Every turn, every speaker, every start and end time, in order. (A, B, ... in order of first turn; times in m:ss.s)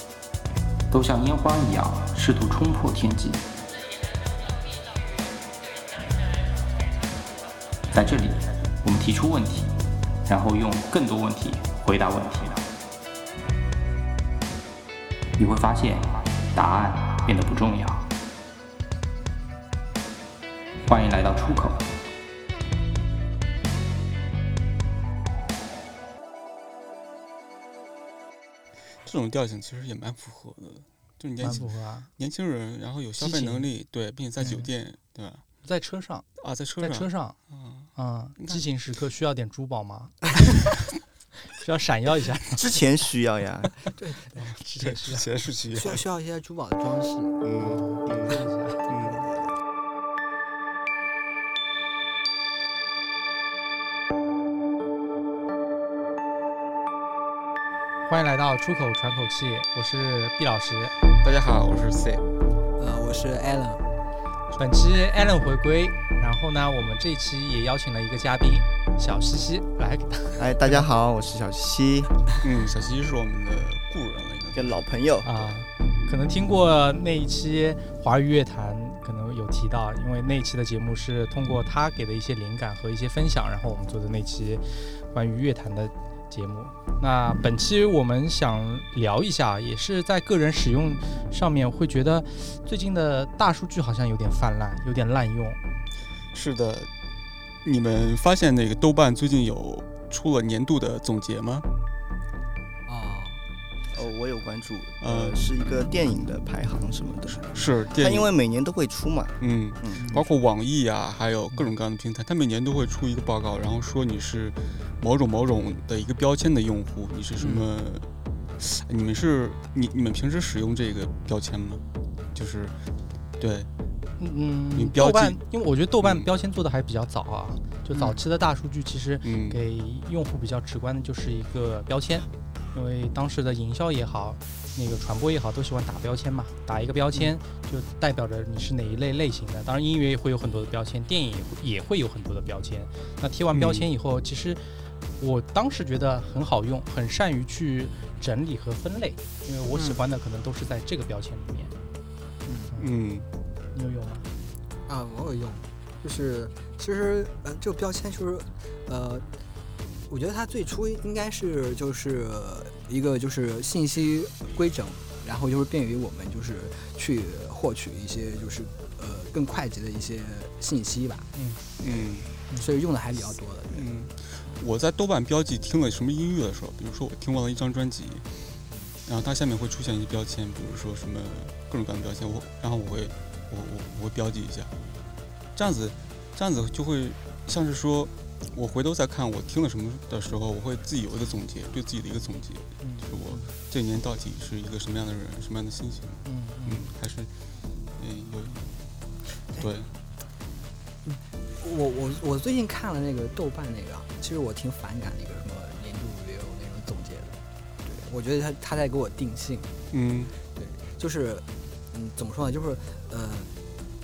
0:00.9-0:03.4 A
0:07.9-0:09.7 A
0:08.0-0:08.2 B
0:09.0-0:09.6 B
0:10.2-0:12.6 A
0:11.0-0:12.5 B
0:15.4-0:18.0 A
0:16.9-0:17.2 B
0:20.9-0:21.8 A
0:20.9-0:21.6 B
0:29.0-0:35.4 C
0:31.4-0:32.1 B
0:33.2-0:33.7 B
0:34.4-0:34.7 B
0:35.6-0:36.3 B
0:36.4-0:37.9 C
0:36.8-0:37.4 B
0:38.0-0:40.3 B
0:41.5-0:42.6 B
0:42.5-0:43.8 D
0:44.0-0:44.4 E
0:44.3-0:45.2 B
0:44.8-0:46.0 C
0:45.7-0:47.4 E
0:47.4-0:49.3 C
0:47.6-0:48.8 B
0:48.3-0:49.5 E
0:58.0-1:00.9 B
1:01.2-1:02.2 C
1:02.8-1:03.8 E
1:04.6-1:10.8 B
1:10.4-1:12.2 D
1:12.4-1:14.7 C
1:14.5-1:15.3 D
1:15.2-1:35.6 B
1:36.3-1:36.9 C
1:37.6-1:41.7 C
1:42.9-1:43.4 E
1:43.9-1:50.2 D
1:45.0-1:45.4 C
1:47.5-1:48.3 C
1:49.4-1:58.1 C
1:50.0-1:50.2 E
1:57.4-1:57.7 E
1:58.6-2:01.8 C
2:02.3-2:02.7 C
2:03.4-2:03.7 C
2:04.2-2:24.6 B
2:04.7-2:05.4 C
2:06.0-2:06.3 C
2:07.9-2:08.2 E
2:09.2-2:09.6 C
2:23.5-2:23.9 C
2:25.2-2:31.7 B
2:29.7-2:30.0 E
2:32.4-2:32.7 E
2:32.8-2:33.3 C
2:33.7-2:34.3 B
2:34.8-2:39.2 E
2:40.1-2:51.3 E
2:51.3-2:51.6 B
2:51.8-2:52.3 C
2:52.5-2:53.9 E
2:53.7-2:58.2 C
2:58.7-2:59.0 E
2:59.0-3:04.7 C
3:05.6-3:17.3 C
3:12.8-3:13.1 B
3:16.2-3:16.9 B
3:18.0-3:18.8 C
3:19.5-3:19.9 C
3:21.0-3:29.7 E
3:29.9-3:30.3 C
3:30.4-3:33.5 E